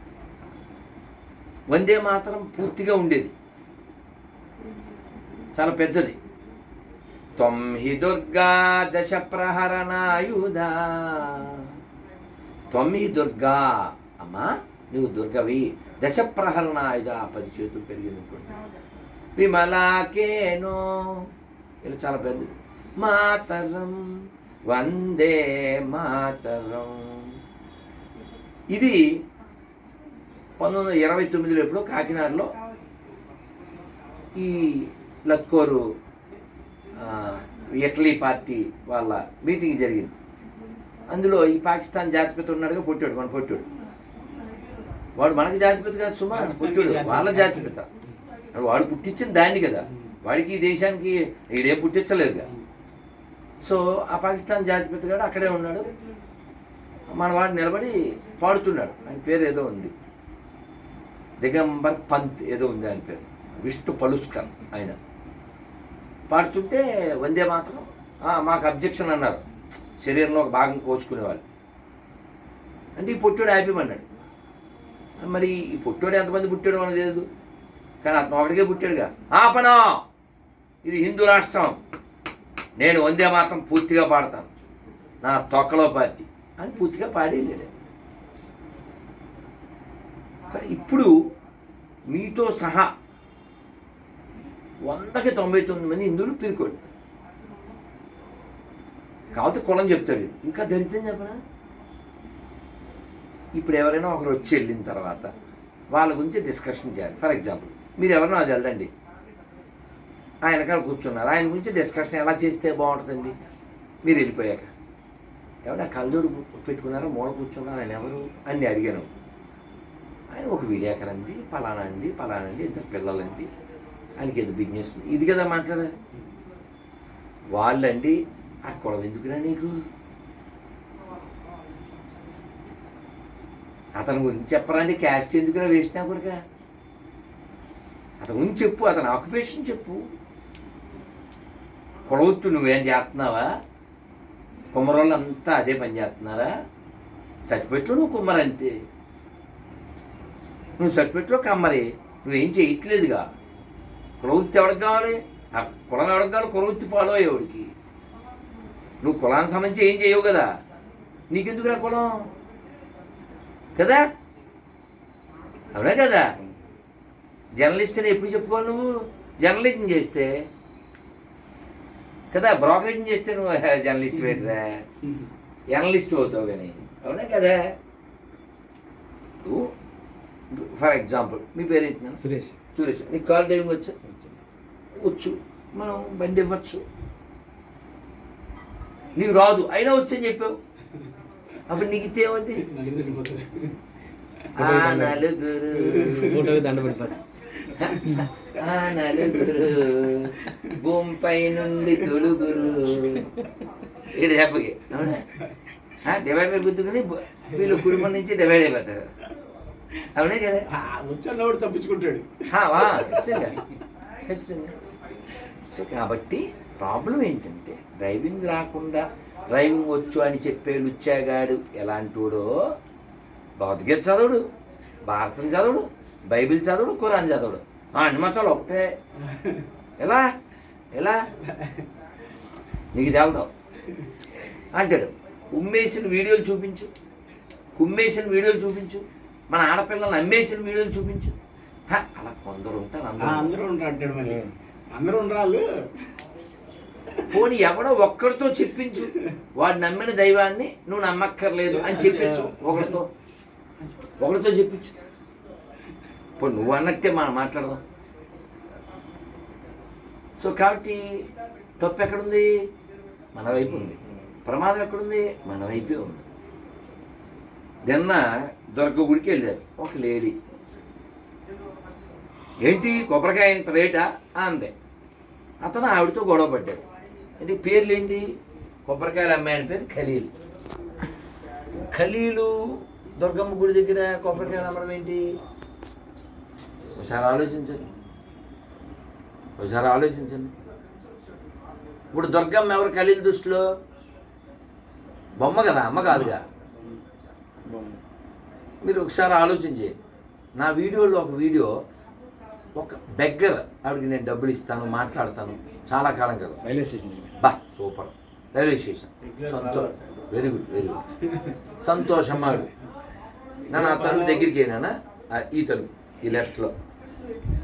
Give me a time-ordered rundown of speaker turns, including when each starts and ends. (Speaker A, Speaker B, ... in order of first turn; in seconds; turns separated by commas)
Speaker A: 1.7-3.3, Speaker A: 5.6-6.2, Speaker A: 7.4-11.7, Speaker A: 12.7-18.6, Speaker A: 19.4-21.3, Speaker A: 21.8-24.1, Speaker A: 24.7-27.3, Speaker A: 28.7-29.0, Speaker A: 30.6-32.5, Speaker A: 34.4-35.8, Speaker A: 37.0-40.1, Speaker A: 41.1-43.7, Speaker A: 45.2-47.9, Speaker B: 46.3-48.1, Speaker A: 48.5-52.5, Speaker B: 49.9-50.1, Speaker A: 53.6-55.9, Speaker A: 57.1-59.9, Speaker A: 61.4-65.0, Speaker A: 66.3-69.4, Speaker A: 70.0-71.4, Speaker A: 73.0-74.1, Speaker A: 75.2-77.3, Speaker A: 78.0-80.0, Speaker A: 80.8-81.8, Speaker A: 82.8-84.5, Speaker A: 85.2-87.7, Speaker A: 90.5-91.1, Speaker A: 92.1-92.9, Speaker A: 94.9-96.8, Speaker A: 99.3-101.4, Speaker A: 103.6-105.3, Speaker A: 105.9-108.9, Speaker A: 110.4-113.4, Speaker A: 114.0-114.7, Speaker A: 115.7-119.1, Speaker A: 120.3-123.5, Speaker A: 124.2-125.9, Speaker A: 127.5-129.8, Speaker A: 134.0-136.4, Speaker A: 138.2-140.0, Speaker A: 142.1-143.5, Speaker A: 144.7-146.5, Speaker A: 147.5-148.7, Speaker A: 150.8-153.3, Speaker A: 154.2-157.7, Speaker A: 159.0-160.5, Speaker A: 161.3-162.1, Speaker A: 163.8-164.0, Speaker A: 165.7-166.3, Speaker A: 167.6-170.3, Speaker A: 172.3-174.8, Speaker A: 175.7-177.6, Speaker A: 179.4-179.7, Speaker A: 180.5-182.2, Speaker C: 182.2-182.6, Speaker A: 182.7-183.9, Speaker C: 184.1-184.4, Speaker A: 185.0-186.8, Speaker A: 189.2-190.6, Speaker A: 191.7-192.7, Speaker B: 192.7-193.8, Speaker A: 194.6-196.4, Speaker C: 194.6-195.2, Speaker B: 195.8-196.6, Speaker C: 196.1-197.2, Speaker B: 197.7-198.2, Speaker A: 197.7-203.3, Speaker B: 199.1-199.6, Speaker B: 201.7-202.2, Speaker A: 204.1-205.2, Speaker A: 206.0-209.0, Speaker B: 207.5-208.1, Speaker A: 210.2-210.7, Speaker B: 210.7-213.6, Speaker A: 212.5-213.6, Speaker A: 214.2-214.8, Speaker A: 215.7-222.5, Speaker A: 223.6-224.5, Speaker A: 225.1-228.9, Speaker B: 229.2-229.7, Speaker B: 231.5-231.8, Speaker A: 232.9-233.5, Speaker A: 234.8-236.9, Speaker A: 237.8-241.3, Speaker A: 241.9-243.6, Speaker B: 243.2-245.7, Speaker C: 244.2-244.5, Speaker B: 247.1-247.3, Speaker A: 247.3-253.1, Speaker B: 251.7-253.0, Speaker A: 254.2-254.9, Speaker A: 256.4-257.8, Speaker A: 260.4-261.1, Speaker A: 261.8-262.5, Speaker A: 263.4-266.2, Speaker B: 263.6-263.9, Speaker A: 267.8-270.4, Speaker A: 272.6-274.7, Speaker A: 275.6-276.8, Speaker A: 277.4-278.2, Speaker A: 278.9-280.3, Speaker A: 281.9-282.6, Speaker A: 283.2-285.3, Speaker A: 287.0-287.8, Speaker A: 289.6-290.5, Speaker A: 292.1-293.6, Speaker A: 295.4-296.4, Speaker C: 297.7-298.0, Speaker A: 298.8-300.0, Speaker A: 300.6-301.7, Speaker A: 302.8-306.6, Speaker C: 306.6-307.3, Speaker A: 307.4-311.0, Speaker B: 309.2-310.4, Speaker B: 311.2-311.6, Speaker A: 311.8-312.7, Speaker B: 312.2-312.7, Speaker B: 313.7-314.5, Speaker A: 313.7-316.7